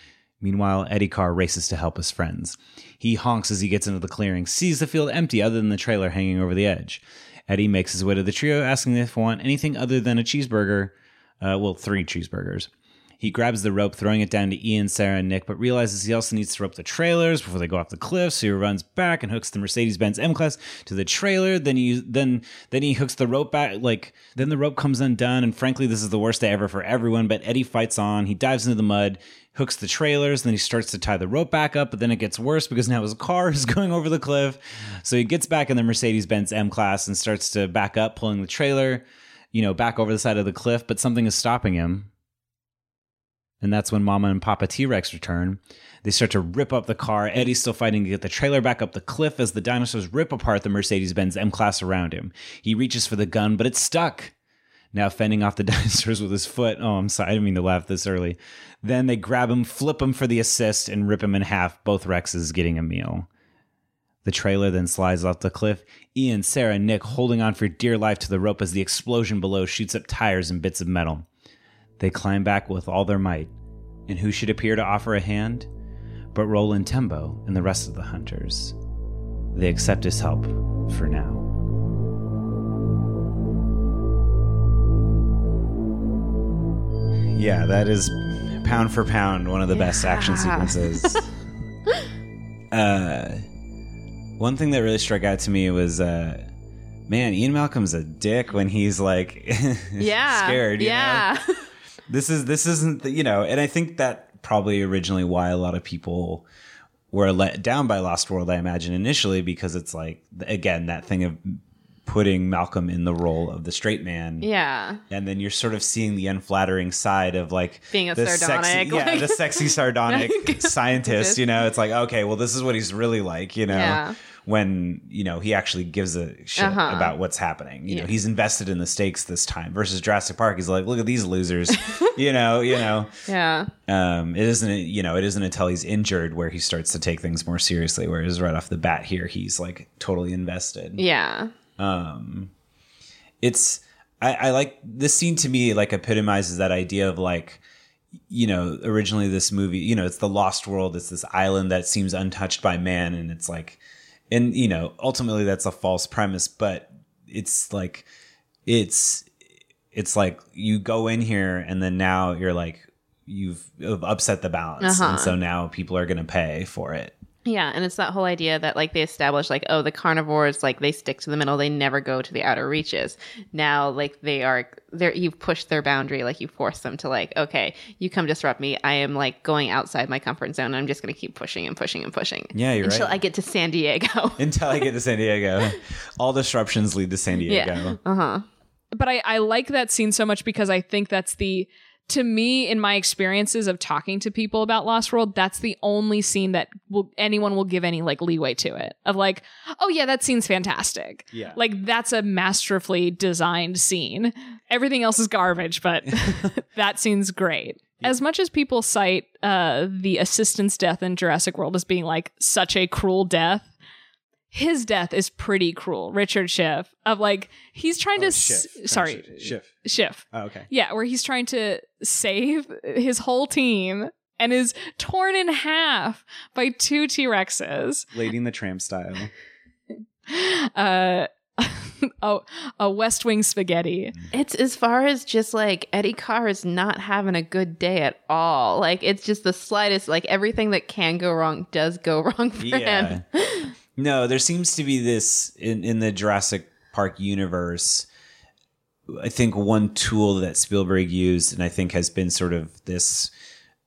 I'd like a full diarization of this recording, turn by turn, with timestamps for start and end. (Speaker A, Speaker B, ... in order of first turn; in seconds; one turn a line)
Speaker A: 0.4-42.1
Speaker A: 43.6-54.3
Speaker A: 54.9-63.3
Speaker A: 64.2-71.3
Speaker A: 72.0-73.5
Speaker A: 74.1-75.7
Speaker A: 76.3-78.8
Speaker A: 79.5-81.5
Speaker A: 87.3-91.3
Speaker B: 89.7-91.2
Speaker A: 92.7-93.4
Speaker A: 94.4-96.5
Speaker A: 97.1-101.3
Speaker B: 100.0-101.7
Speaker A: 102.1-106.5
Speaker A: 107.1-114.5
Speaker B: 114.4-115.0
Speaker A: 115.1-133.1
Speaker B: 117.9-121.4
Speaker B: 123.7-124.2
Speaker B: 126.6-127.1
Speaker B: 127.9-128.1
Speaker B: 133.3-133.7
Speaker A: 133.9-141.0
Speaker B: 140.9-141.5
Speaker A: 141.8-142.5
Speaker A: 143.4-147.6
Speaker A: 148.3-158.1
Speaker A: 158.7-159.3
Speaker A: 159.9-167.1
Speaker B: 164.8-165.3
Speaker B: 167.4-184.5
Speaker A: 182.5-183.1
Speaker A: 184.4-188.0
Speaker B: 187.4-188.4
Speaker C: 188.9-213.7
Speaker A: 201.3-201.6
Speaker C: 214.5-228.1
Speaker A: 218.2-219.7
Speaker A: 220.3-220.7
Speaker A: 228.1-229.3
Speaker C: 230.3-234.1
Speaker B: 234.3-243.7
Speaker A: 242.6-243.2
Speaker A: 243.9-248.1
Speaker A: 249.1-253.3